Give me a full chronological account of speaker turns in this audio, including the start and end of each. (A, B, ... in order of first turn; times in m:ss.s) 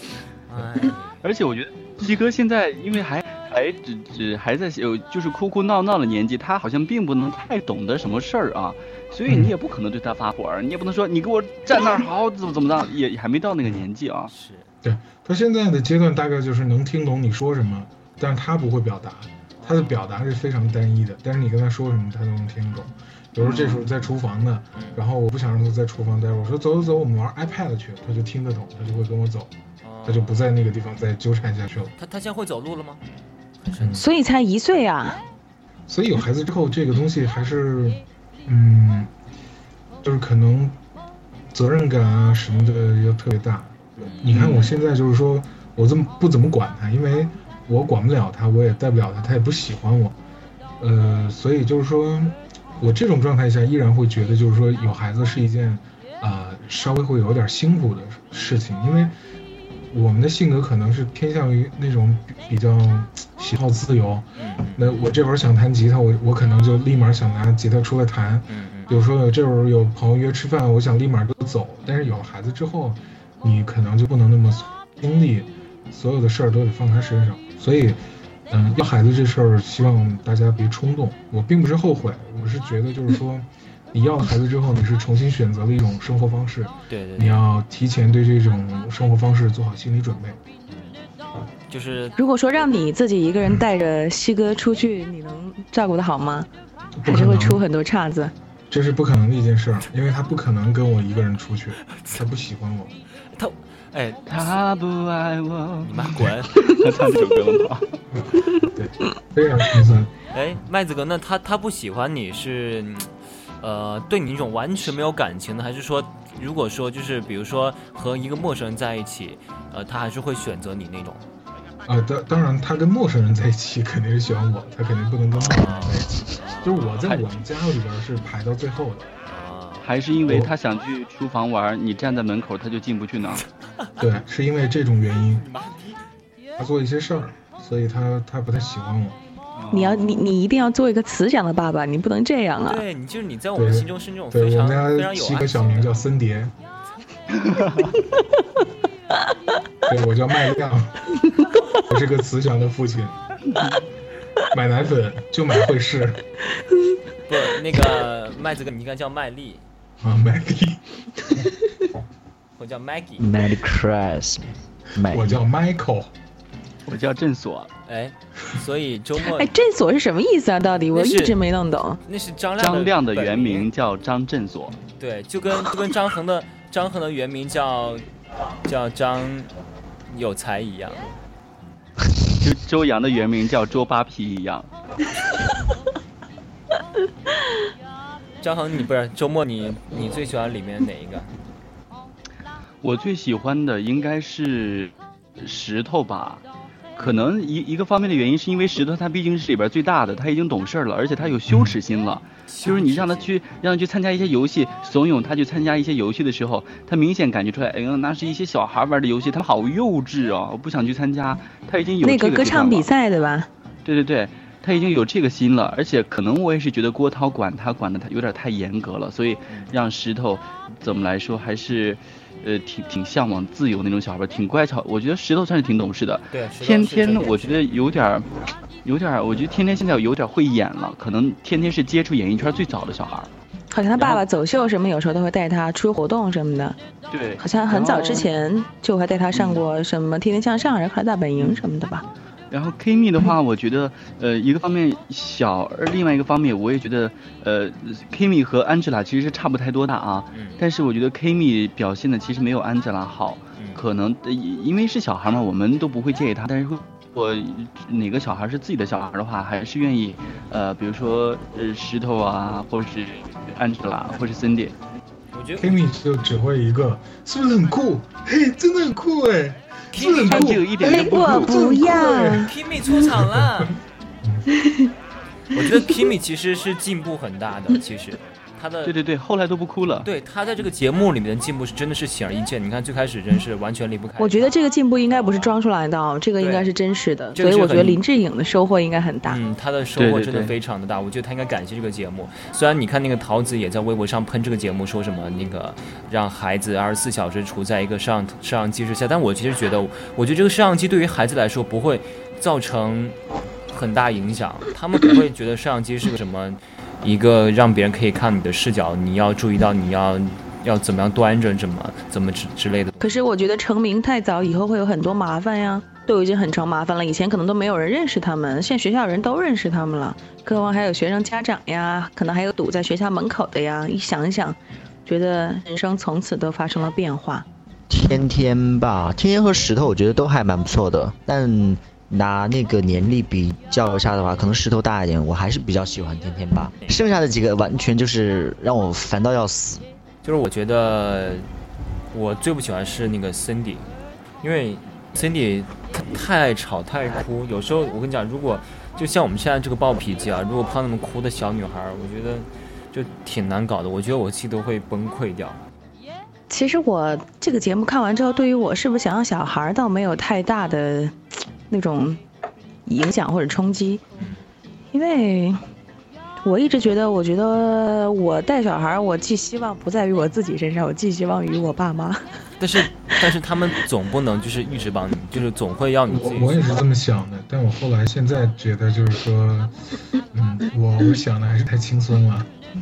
0:00.5-0:01.2 A
0:01.2-0:14.3 B
0:09.3-0:09.5 C
0:14.3-0:14.7 A
0:14.8-0:29.5 C
0:19.6-0:20.1 A
0:23.4-0:23.9 B
0:24.8-0:25.0 A
0:29.8-0:30.5 A
0:30.0-0:31.9 C
0:32.0-0:33.0 A
0:33.7-0:34.0 A
0:33.8-0:34.1 C
0:33.9-0:35.2 D
0:35.9-0:39.1 C
0:40.0-0:40.8 C
0:41.5-0:50.2 C
0:44.0-0:44.2 A
0:44.3-0:44.7 B
0:50.8-0:59.1 C
0:59.9-1:30.4 C
1:04.4-1:04.9 A
1:08.5-1:08.9 A
1:26.9-1:27.4 A
1:31.7-1:32.2 A
1:32.2-1:36.5 D
1:37.0-1:37.6 C
1:37.0-1:38.3 D
1:38.7-1:43.0 C
1:41.9-1:42.2 A
1:43.3-1:44.6 A
1:44.3-1:48.0 B
1:45.8-1:46.7 A
1:48.2-1:50.1 C
1:50.3-2:01.2 A
2:01.9-2:09.1 C
2:05.4-2:07.3 A
2:09.3-2:09.9 A
2:09.8-2:13.4 B
2:10.3-2:10.5 C
2:14.0-2:15.5 C
2:15.4-2:16.0 A
2:16.6-2:19.2 C
2:19.6-2:20.2 B
2:19.7-2:22.8 D
2:22.6-2:25.9 A
2:23.6-2:26.5 C
2:27.4-2:27.9 B
2:29.8-2:31.2 C
2:31.8-2:33.2 C
2:34.4-2:36.2 C
2:37.3-2:39.6 A
2:40.0-2:41.5 C
2:42.6-2:43.3 A
2:43.2-2:45.4 E
2:45.0-2:46.1 C
2:46.9-2:47.7 B
2:47.9-2:49.5 A
2:49.2-2:52.0 D
2:50.9-2:51.4 A
2:52.1-2:53.7 A
2:52.6-2:54.8 B
2:55.0-2:58.1 A
2:58.6-2:59.5 A
3:00.1-3:01.2 A
3:02.4-3:04.7 B
3:08.4-3:11.3 A
3:12.8-3:16.4 B
3:17.0-3:32.9 B
3:21.5-3:21.8 C
3:22.5-3:23.4 A
3:32.0-3:33.5 D
3:33.8-3:48.3 B
3:46.3-3:47.8 A
3:48.8-3:53.3 B
3:53.7-3:56.8 D
3:57.1-3:58.3 B
3:57.4-4:02.1 D
3:59.3-3:59.6 B
4:01.4-4:01.6 B
4:02.5-4:24.7 B
4:10.3-4:10.6 A
4:25.3-4:25.8 A
4:25.6-4:33.7 C
4:29.9-4:30.5 A
4:30.3-4:32.0 B
4:30.8-4:32.5 D
4:32.4-4:33.8 A
4:34.2-4:34.5 C
4:34.5-4:34.9 D
4:35.5-4:39.0 A
4:38.8-4:40.1 B
4:40.0-4:44.6 A
4:44.2-4:49.4 D
4:45.1-4:45.6 A
4:46.4-4:46.7 A
4:47.3-4:48.0 A
4:49.2-5:03.2 A
4:50.0-4:50.5 B
5:03.7-5:13.2 A
5:13.0-5:27.4 D
5:27.9-5:39.8 E
5:40.2-5:41.5 A
5:42.1-5:43.9 A
5:44.4-5:55.6 A
5:56.5-6:01.2 D
6:01.7-6:02.2 D
6:02.9-6:04.0 D
6:04.2-6:04.4 A
6:04.9-6:05.6 D
6:06.4-6:12.3 D
6:12.6-6:16.8 A
6:16.1-6:19.7 C
6:20.3-6:22.5 C